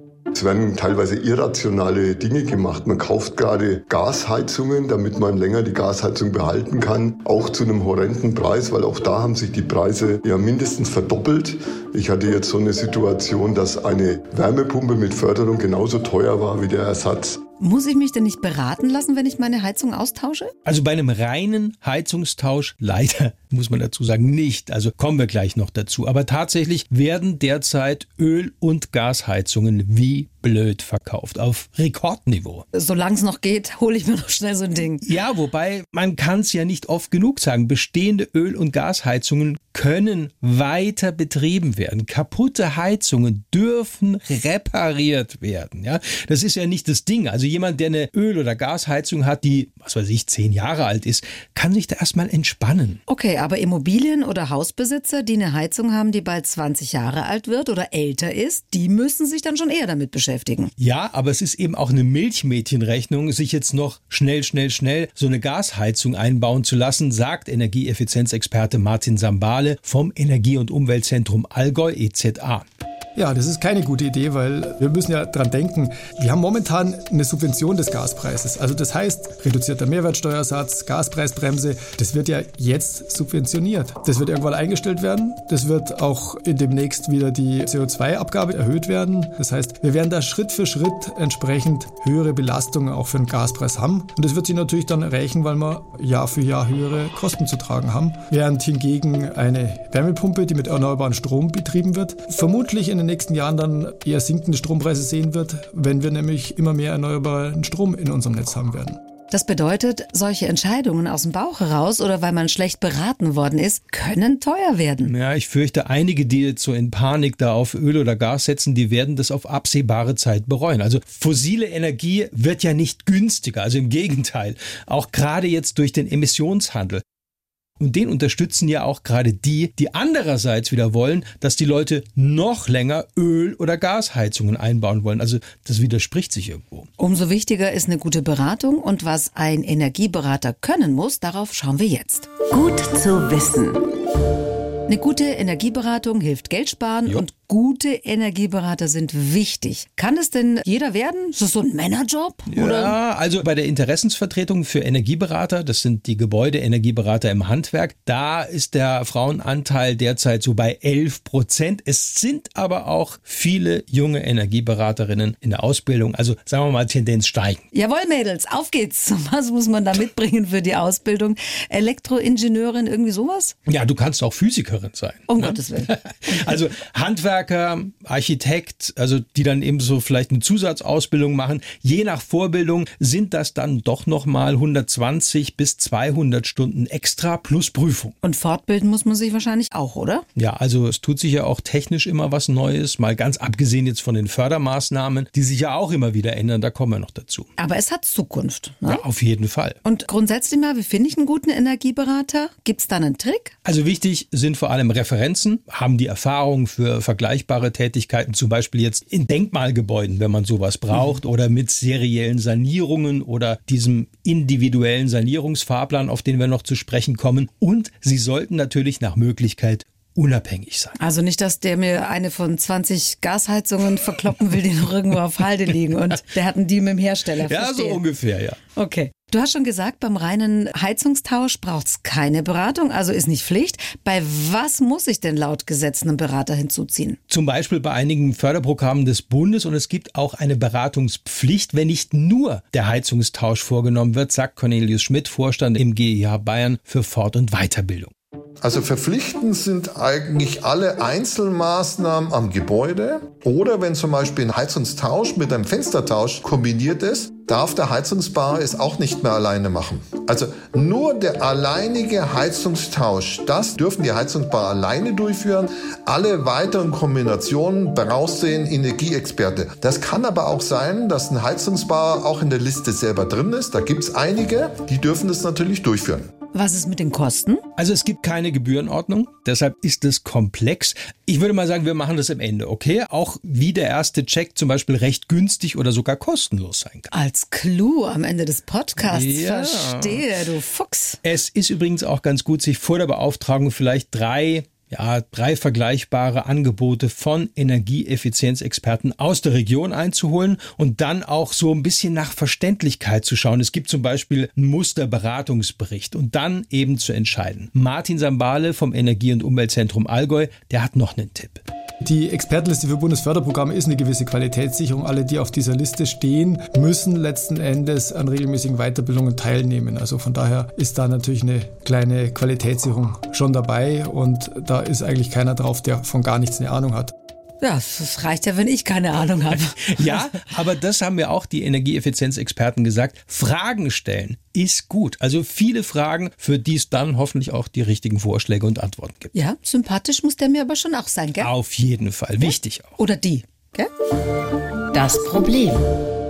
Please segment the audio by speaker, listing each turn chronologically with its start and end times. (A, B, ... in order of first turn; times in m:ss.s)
0:00.3-0:17.4 A
0:17.6-0:20.5 B
0:20.6-0:32.6 C
0:32.7-0:35.0 B
0:35.0-0:53.0 C
0:53.1-1:00.7 B
1:00.8-1:12.7 C
1:13.2-1:49.0 D
1:49.3-1:55.1 B
1:55.0-2:07.0 C
2:07.8-2:16.9 C
2:17.0-2:22.3 B
2:22.5-2:23.8 E
2:24.9-2:32.9 B
2:32.5-2:47.6 C
2:47.7-2:53.5 B
2:53.7-3:08.1 C
2:55.3-2:56.6 B
3:08.2-3:10.2 B
3:10.4-3:17.5 C
3:17.6-3:19.0 B
3:18.8-3:19.8 C
3:19.8-3:23.5 B
3:23.6-3:41.0 C
3:41.0-3:48.0 B
3:47.4-3:48.6 C
3:48.8-3:57.2 B
3:57.3-4:08.1 C
4:08.6-4:36.3 F
4:36.5-4:37.6 B
4:37.8-4:47.1 C
4:47.1-4:51.2 B
4:49.0-4:50.2 C
4:51.2-5:11.6 C
5:12.0-5:27.1 D
5:27.6-5:30.2 B
5:29.8-5:39.3 C
5:39.3-5:41.5 B
5:41.4-5:43.0 C
5:42.4-5:43.9 B
5:44.9-5:45.8 E